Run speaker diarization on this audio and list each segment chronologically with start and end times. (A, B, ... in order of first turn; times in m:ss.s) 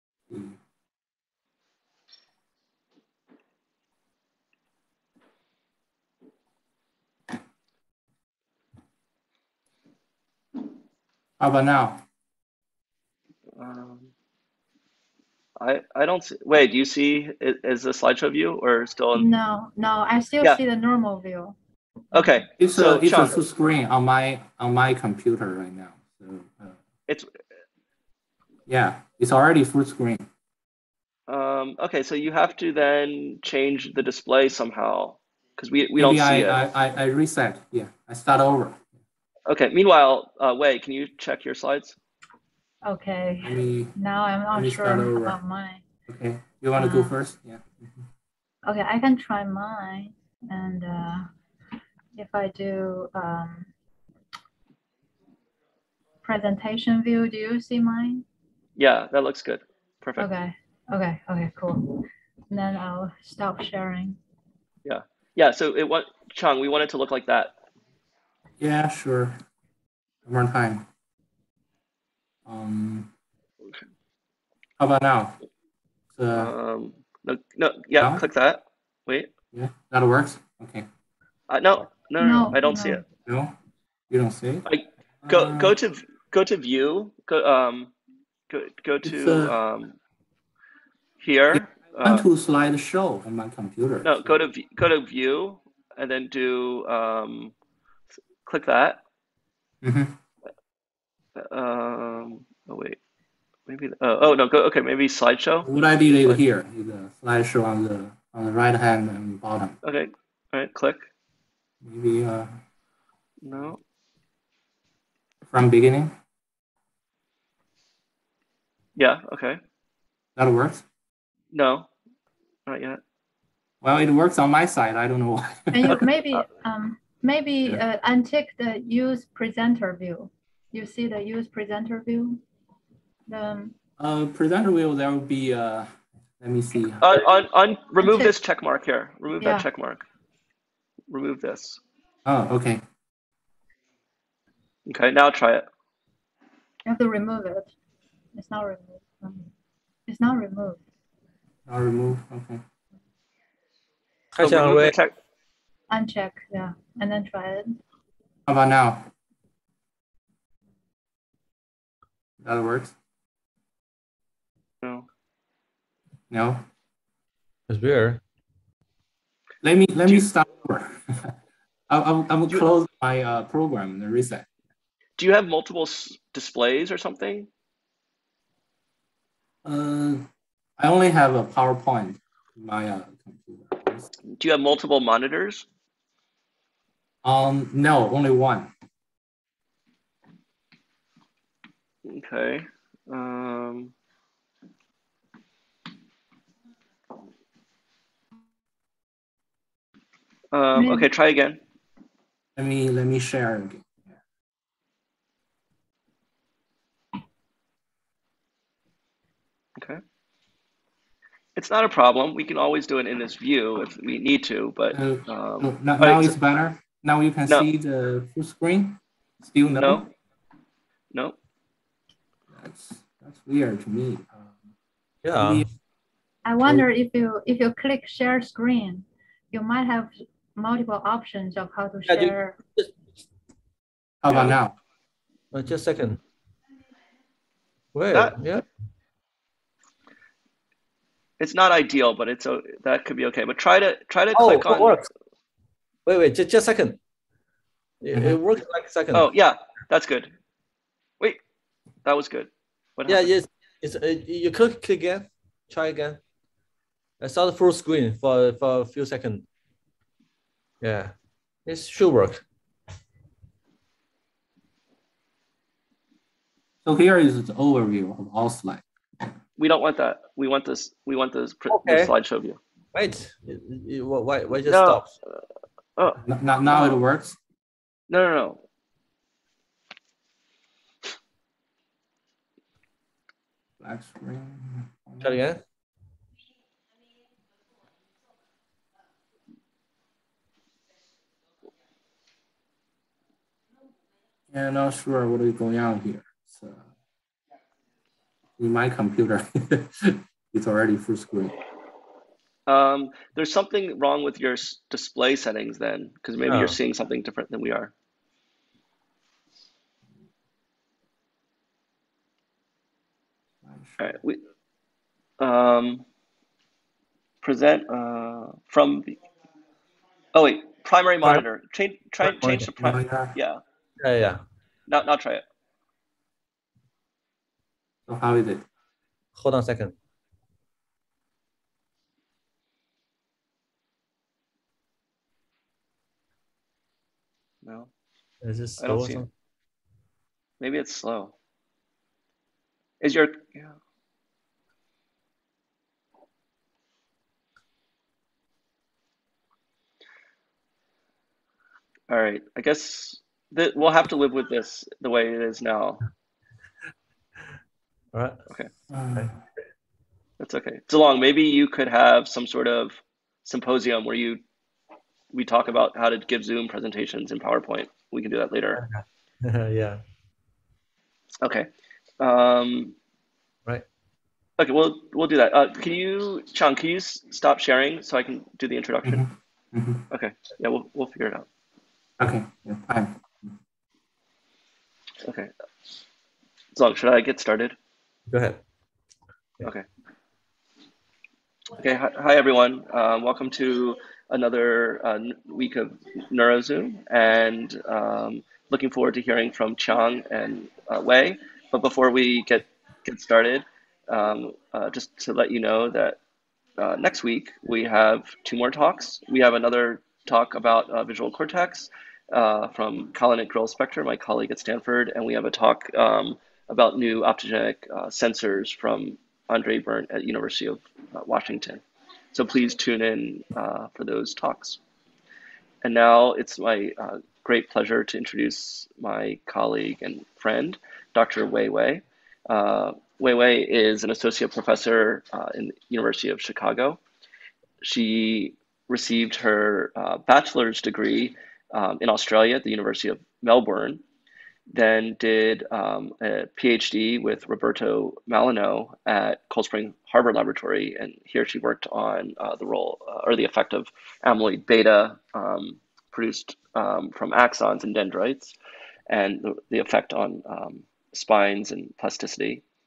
0:00.3-0:00.6 A
0:11.4-0:12.0 A
0:13.6-0:14.1 B
0:15.6-0:19.2 B
0:19.1-0:21.6 C
0:22.1-0:23.4 B
0:22.6-0:26.8 A
0:28.7-0:30.2 A
0:31.3-0:36.6 B
0:36.0-0:38.9 A
0:39.5-0:42.0 B
0:42.8-0:45.8 C
0:43.4-0:43.9 A
0:44.5-0:45.4 A
0:46.1-0:48.0 A
0:46.8-0:47.1 C
0:48.6-0:51.3 C
0:52.1-0:53.7 C
0:56.2-0:58.2 C
0:58.8-1:00.3 B
1:00.2-1:04.2 C
1:04.8-1:07.5 B
1:08.6-1:09.4 A
1:10.2-1:10.8 A
1:12.5-1:13.1 A
1:14.8-1:15.4 A
1:16.1-1:16.5 A
1:16.3-1:19.3 B
1:18.0-1:18.2 A
1:19.5-1:20.8 A
1:21.5-1:23.0 B
1:22.2-1:23.0 C
1:23.2-1:23.5 A
1:24.1-1:24.6 A
1:24.6-1:27.9 B
1:25.2-1:25.7 A
1:28.5-1:29.9 B
1:29.0-1:29.6 A
1:31.2-1:32.2 B
1:31.5-1:34.4 A
1:34.0-1:37.5 B
1:38.4-1:39.0 B
1:39.8-1:40.2 A
1:41.4-1:43.0 B
1:43.7-1:45.7 B
1:45.6-1:49.8 A
1:49.8-1:51.1 B
1:51.8-1:52.5 A
1:53.4-1:53.8 B
1:55.5-1:56.1 A
1:59.0-1:59.6 B
2:00.4-2:00.8 A
2:01.5-2:01.9 B
2:02.7-2:03.0 B
2:03.8-2:06.0 A
2:05.7-2:12.4 C
2:13.3-2:13.7 C
2:14.0-2:15.9 A
2:16.4-2:17.2 A
2:17.0-2:20.0 B
2:18.0-2:18.3 C
2:19.4-2:19.7 C
2:21.1-2:21.8 B
2:22.2-2:22.8 A
2:24.8-2:25.6 B
2:26.8-2:27.7 C
2:28.3-2:29.5 C
2:30.1-2:30.8 C
2:31.6-2:32.6 A
2:34.3-2:35.0 D
2:34.4-2:35.1 B
2:35.9-2:37.8 C
2:38.5-2:39.1 A
2:42.4-2:43.0 A
2:44.8-2:45.1 B
2:46.3-2:46.6 A
2:47.7-2:48.2 D
2:49.6-2:51.4 A
2:51.9-2:54.5 A
2:55.2-2:57.5 B
2:59.6-3:00.2 A
3:00.8-3:04.1 A
3:04.4-3:05.6 B
3:07.2-3:08.7 A
3:12.0-3:13.9 B
3:20.5-3:21.6 B
3:20.7-3:21.1 C
3:22.6-3:24.1 A
3:31.6-3:36.4 B
3:34.9-3:40.1 A
3:39.8-3:40.1 B
3:42.5-3:44.7 A
3:45.2-3:45.7 D
3:45.4-3:45.7 A
3:46.4-3:52.6 C
3:52.1-3:52.9 D
3:54.2-3:54.8 A
3:54.3-3:54.6 B
3:55.5-3:56.2 D
3:57.9-3:58.6 D
4:01.4-4:05.0 B
4:04.3-4:05.1 D
4:06.0-4:07.0 D
4:08.0-4:09.3 D
4:09.1-4:10.3 B
4:12.0-4:13.3 B
4:13.1-4:16.2 D
4:17.2-4:19.4 D
4:20.8-4:21.1 D
4:21.6-4:22.4 D
4:26.8-4:28.8 A
4:29.6-4:32.6 B
4:31.7-4:32.1 D
4:32.9-4:35.1 D
4:34.6-4:35.4 B
4:36.0-4:37.0 B
4:36.2-4:37.4 A
4:38.1-4:38.6 B
4:43.8-4:45.4 A
4:45.2-4:45.6 D
4:54.5-4:56.8 A
4:58.6-5:01.6 A
5:02.7-5:07.9 B
5:06.5-5:06.8 D
5:13.6-5:14.2 A
5:14.0-5:14.4 B
5:15.4-5:16.0 B
5:17.4-5:19.2 B
5:20.3-5:23.6 B
5:22.2-5:22.7 D
5:22.8-5:23.3 A
5:24.0-5:24.4 D
5:24.9-5:25.4 B
5:28.1-5:28.6 A
5:29.4-5:29.9 D
5:37.6-5:37.9 B
5:38.4-5:39.3 D
5:38.8-5:39.2 B
5:40.6-5:41.3 B
5:43.0-5:43.7 B
5:52.1-5:56.0 B
5:58.1-5:58.4 D
5:58.9-5:59.4 A
6:00.4-6:04.4 B
6:05.3-6:08.8 B
6:08.7-6:10.0 D
6:11.4-6:11.7 B
6:12.2-6:12.9 B
6:14.6-6:19.2 B
6:19.0-6:20.0 A
6:20.1-6:21.4 B
6:22.2-6:23.5 A
6:25.2-6:25.5 B
6:26.7-6:27.7 B
6:28.3-6:28.6 D
6:31.7-6:46.2 B
6:46.8-7:04.8 B
7:05.8-7:17.0 B
7:17.8-7:24.0 B
7:24.7-7:38.5 B
7:39.1-7:42.6 B